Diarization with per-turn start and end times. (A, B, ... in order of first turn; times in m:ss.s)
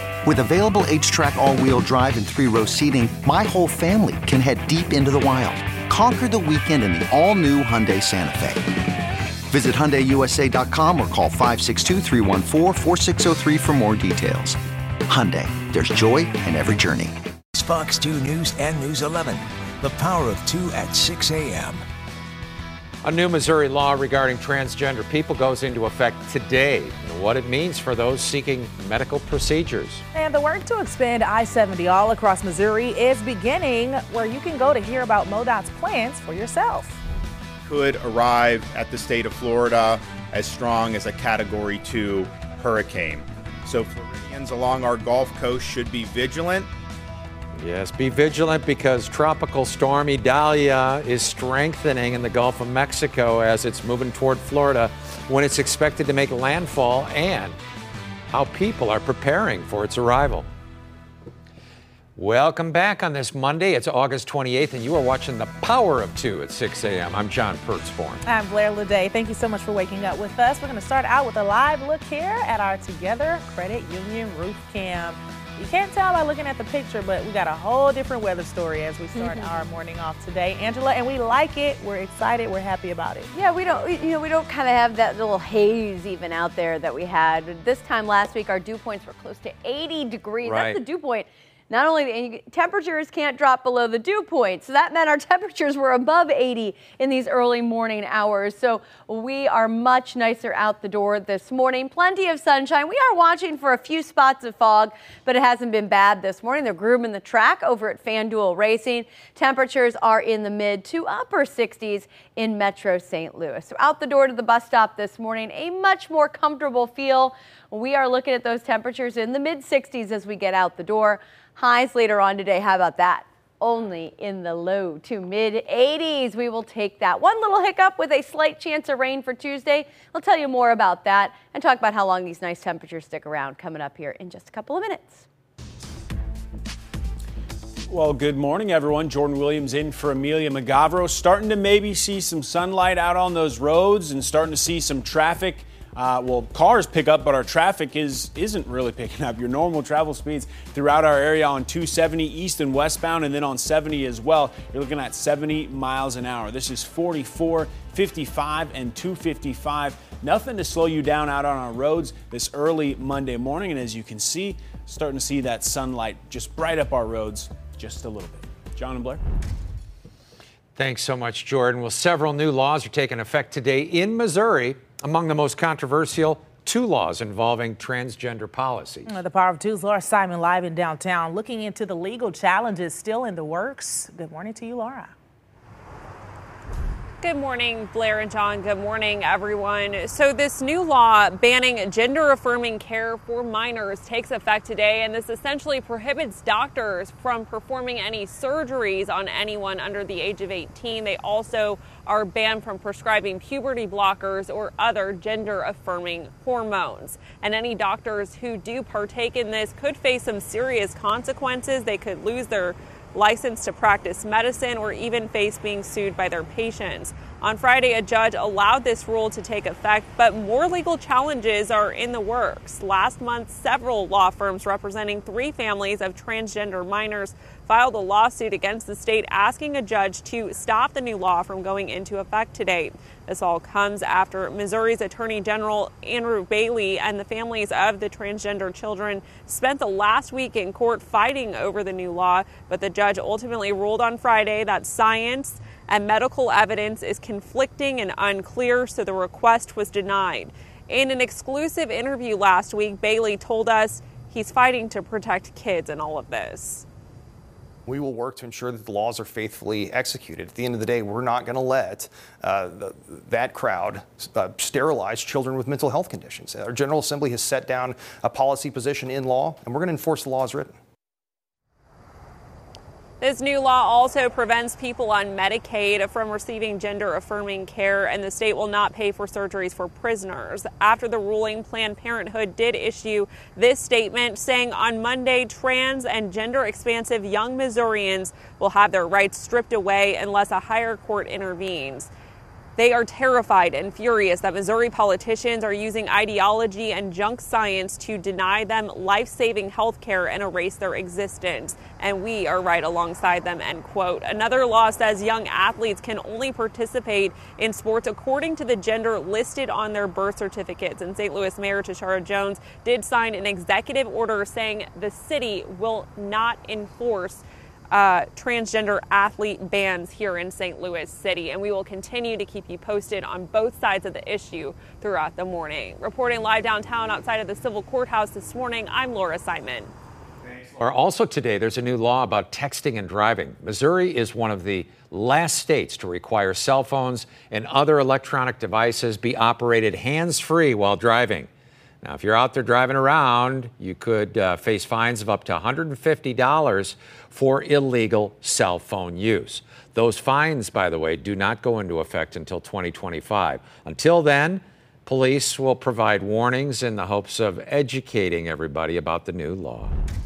0:00.2-0:08.8 A
0:09.5-0:17.2 A
0:17.6-0:21.8 B
0:23.0-0:30.0 C
0:30.1-0:37.0 D
0:37.6-0:46.7 E
0:47.6-0:57.6 C
0:58.3-1:00.5 C
1:02.2-1:08.2 C
1:08.2-1:23.3 D
1:19.2-1:19.5 F
1:23.3-2:15.2 F
1:30.4-1:30.8 C
2:17.9-2:49.2 G
2:50.8-2:59.2 C
2:59.1-3:05.1 D
3:07.2-4:16.8 H
4:17.9-4:30.7 I
4:33.2-4:52.1 H
4:52.8-5:29.9 H
5:30.8-5:41.5 C
5:42.0-6:00.0 C